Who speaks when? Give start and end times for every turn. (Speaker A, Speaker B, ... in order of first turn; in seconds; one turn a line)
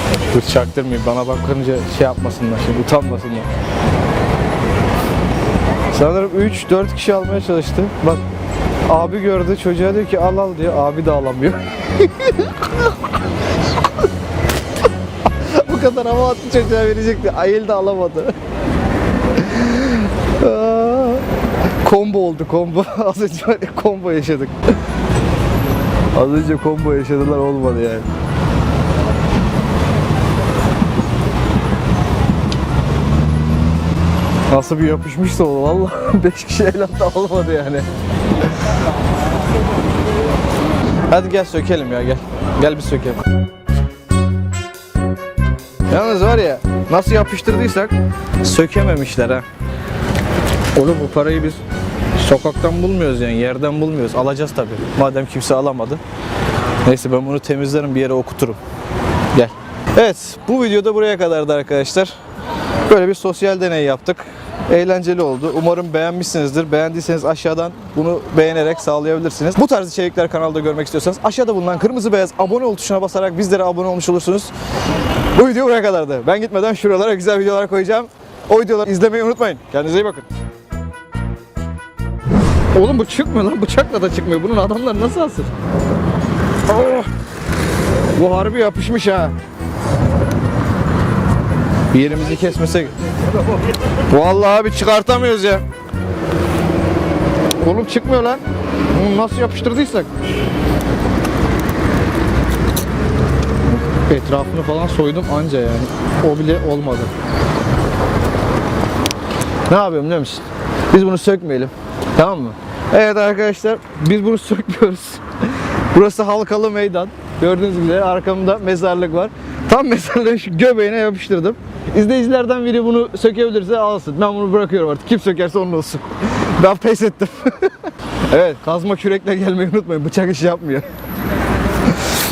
Speaker A: 0.3-3.5
Speaker A: 5.9-8.2
Speaker A: 8.8-12.9
Speaker A: 15.3-18.4
Speaker A: 19.3-21.2
Speaker A: 21.8-24.6
Speaker A: 26.1-28.1
Speaker A: 34.5-37.9
Speaker A: 41.1-43.2
Speaker A: 45.9-49.5
Speaker A: 50.7-51.6
Speaker A: 52.1-56.0
Speaker A: 56.8-58.6
Speaker A: 59.3-62.1
Speaker A: 62.9-74.5
Speaker A: 75.3-80.3
Speaker A: 82.7-85.5
Speaker A: 86.7-87.1
Speaker A: 88.1-89.3
Speaker A: 91.9-92.9
Speaker A: 94.1-95.6
Speaker A: 97.6-100.1
Speaker A: 103.7-107.1
Speaker A: 109.7-130.9